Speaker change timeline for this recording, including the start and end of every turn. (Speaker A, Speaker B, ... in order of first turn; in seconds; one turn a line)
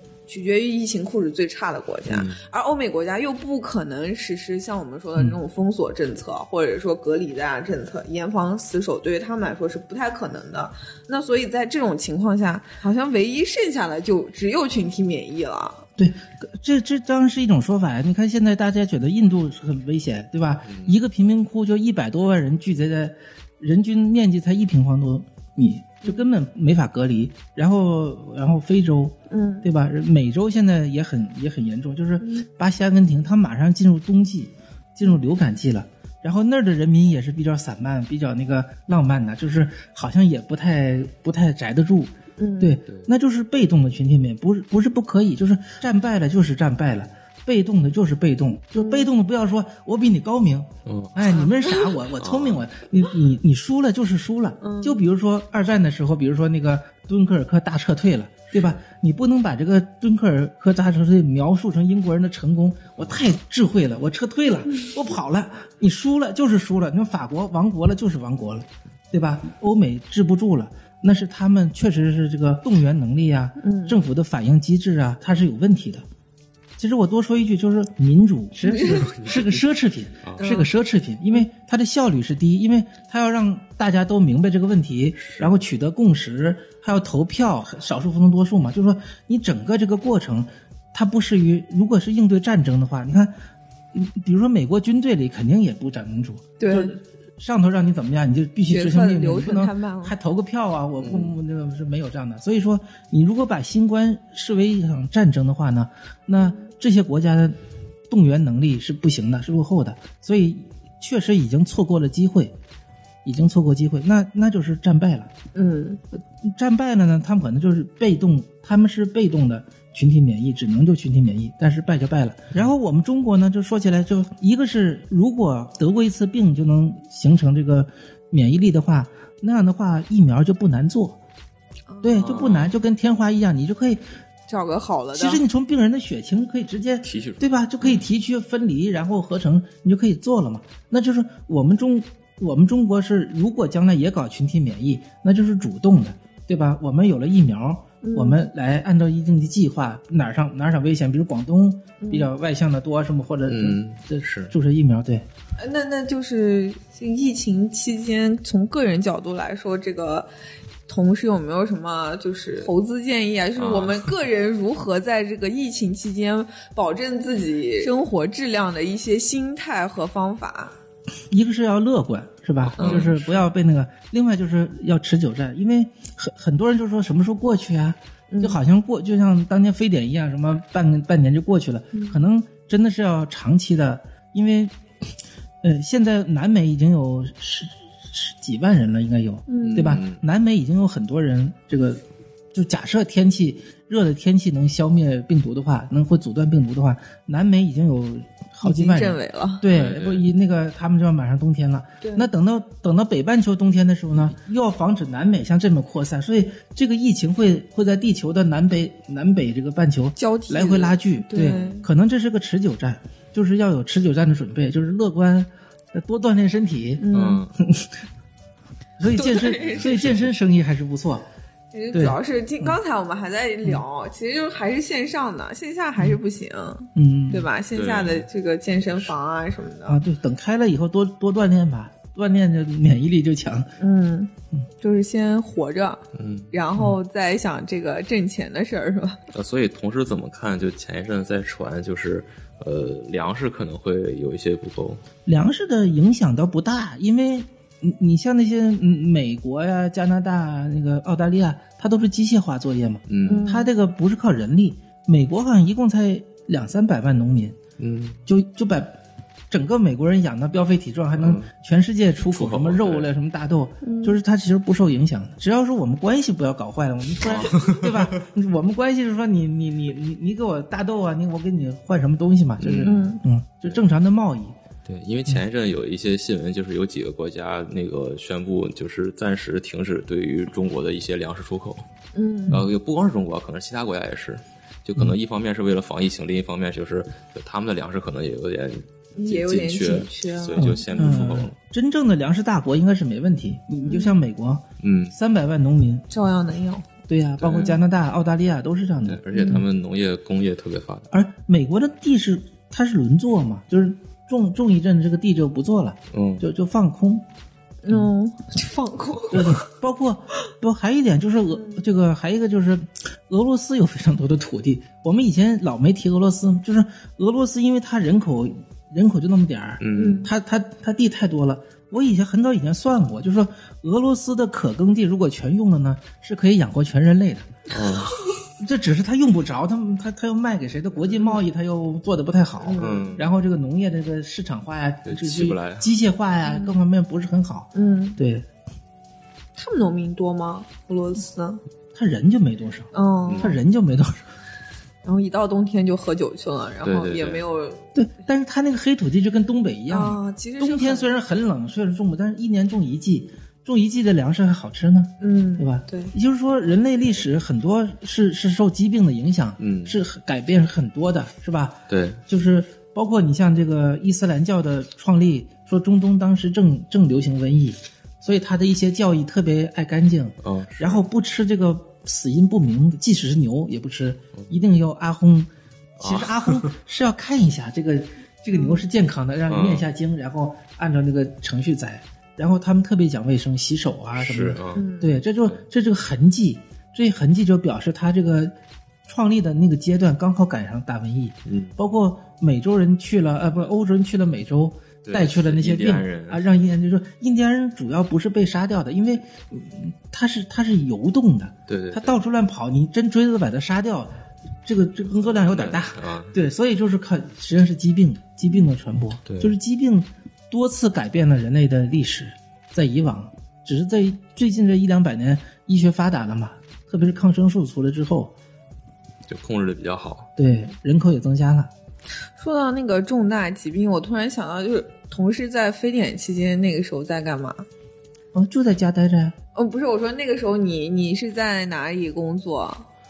Speaker A: 0.3-15.9
Speaker B: 2.1-2.4
Speaker C: 16.0-76.0
Speaker B: 20.7-20.9
Speaker A: 29.3-29.7
Speaker A: 32.2-32.5
Speaker A: 42.4-42.8
Speaker B: 42.9-43.1
Speaker A: 48.8-49.1
Speaker B: 50.9-51.5
Speaker B: 52.2-52.6
Speaker A: 54.6-55.0
Speaker B: 58.5-58.8
Speaker A: 73.6-74.0
Speaker C: 76.8-93.3
Speaker A: 78.6-79.1
Speaker B: 78.9-79.6
Speaker B: 80.2-80.5
Speaker A: 80.4-80.7
Speaker B: 85.2-85.5
Speaker C: 93.9-107.6
Speaker A: 96.6-97.0
Speaker A: 98.7-100.2
Speaker B: 101.0-101.4
Speaker A: 106.4-106.7
Speaker C: 108.1-112.5
Speaker C: 113.2-115.3
Speaker A: 115.5-116.0
Speaker C: 116.4-131.2
Speaker A: 131.9-132.4
Speaker C: 132.0-134.0
Speaker B: 132.1-132.7
Speaker A: 134.5-135.4
Speaker C: 135.1-155.3
Speaker B: 137.1-138.1
Speaker A: 148.0-148.4
Speaker A: 152.0-152.3
Speaker B: 153.5-154.5
Speaker A: 155.6-160.3
Speaker A: 160.9-170.8
Speaker B: 163.6-164.1
Speaker C: 171.3-184.7
Speaker B: 172.6-173.5
Speaker A: 172.8-173.0
Speaker A: 178.3-178.6
Speaker A: 181.9-182.2
Speaker C: 185.6-217.1
Speaker A: 189.5-190.0
Speaker B: 189.6-190.2
Speaker A: 198.6-199.7
Speaker B: 199.7-200.2
Speaker A: 202.0-202.3
Speaker A: 210.2-211.9
Speaker A: 217.0-217.4
Speaker B: 217.1-217.6
Speaker C: 217.6-217.9
Speaker C: 219.0-221.3
Speaker A: 219.1-220.0
Speaker B: 219.6-220.3
Speaker A: 221.7-230.0
Speaker C: 221.9-222.8
Speaker C: 226.9-227.5
Speaker B: 227.7-228.3
Speaker C: 229.9-233.7
Speaker A: 233.8-239.2
Speaker B: 236.1-236.6
Speaker B: 239.3-245.0
Speaker C: 245.3-257.6
Speaker B: 253.1-253.5
Speaker A: 253.3-253.7
Speaker B: 257.8-258.2
Speaker C: 258.3-259.0
Speaker C: 259.5-274.6
Speaker B: 261.2-261.5
Speaker B: 262.3-263.1
Speaker A: 263.8-264.2
Speaker B: 267.2-268.1
Speaker B: 272.6-273.0
Speaker A: 272.8-273.2
Speaker B: 274.9-281.9
Speaker A: 282.1-282.7
Speaker B: 282.5-291.6
Speaker A: 289.2-291.3
Speaker C: 290.6-296.1
Speaker A: 293.9-294.2
Speaker B: 294.8-295.1
Speaker A: 296.1-296.9
Speaker C: 297.1-299.6
Speaker B: 297.4-297.8
Speaker A: 297.5-297.8
Speaker B: 299.1-301.1
Speaker A: 299.3-299.6
Speaker C: 301.1-307.2
Speaker B: 306.1-306.5
Speaker A: 307.8-309.7
Speaker C: 309.3-327.6
Speaker A: 311.5-311.8
Speaker B: 319.8-320.3
Speaker A: 319.9-320.3
Speaker B: 327.7-328.1
Speaker C: 328.6-338.5
Speaker A: 331.1-331.4
Speaker A: 332.6-333.1
Speaker B: 332.8-333.3
Speaker B: 335.1-335.9
Speaker A: 336.4-336.8
Speaker A: 337.7-338.2
Speaker A: 339.6-341.6
Speaker C: 341.9-344.2
Speaker A: 342.9-343.6
Speaker B: 343.3-343.5
Speaker A: 345.0-347.9
Speaker B: 346.8-347.4
Speaker C: 347.9-388.5
Speaker A: 349.9-351.1
Speaker A: 355.2-356.1
Speaker B: 359.6-360.0
Speaker B: 361.9-362.2
Speaker B: 370.4-371.0
Speaker B: 376.0-376.7
Speaker A: 378.5-378.9
Speaker B: 379.5-379.9
Speaker B: 384.2-384.9
Speaker A: 384.7-385.2
Speaker C: 389.1-404.1
Speaker B: 391.5-391.8
Speaker B: 395.1-396.5
Speaker B: 401.7-402.2
Speaker C: 404.6-418.4
Speaker B: 405.4-406.4
Speaker B: 409.3-409.5
Speaker B: 419.3-420.3
Speaker C: 420.4-421.7
Speaker A: 422.4-427.7
Speaker C: 428.3-429.4
Speaker A: 429.6-432.9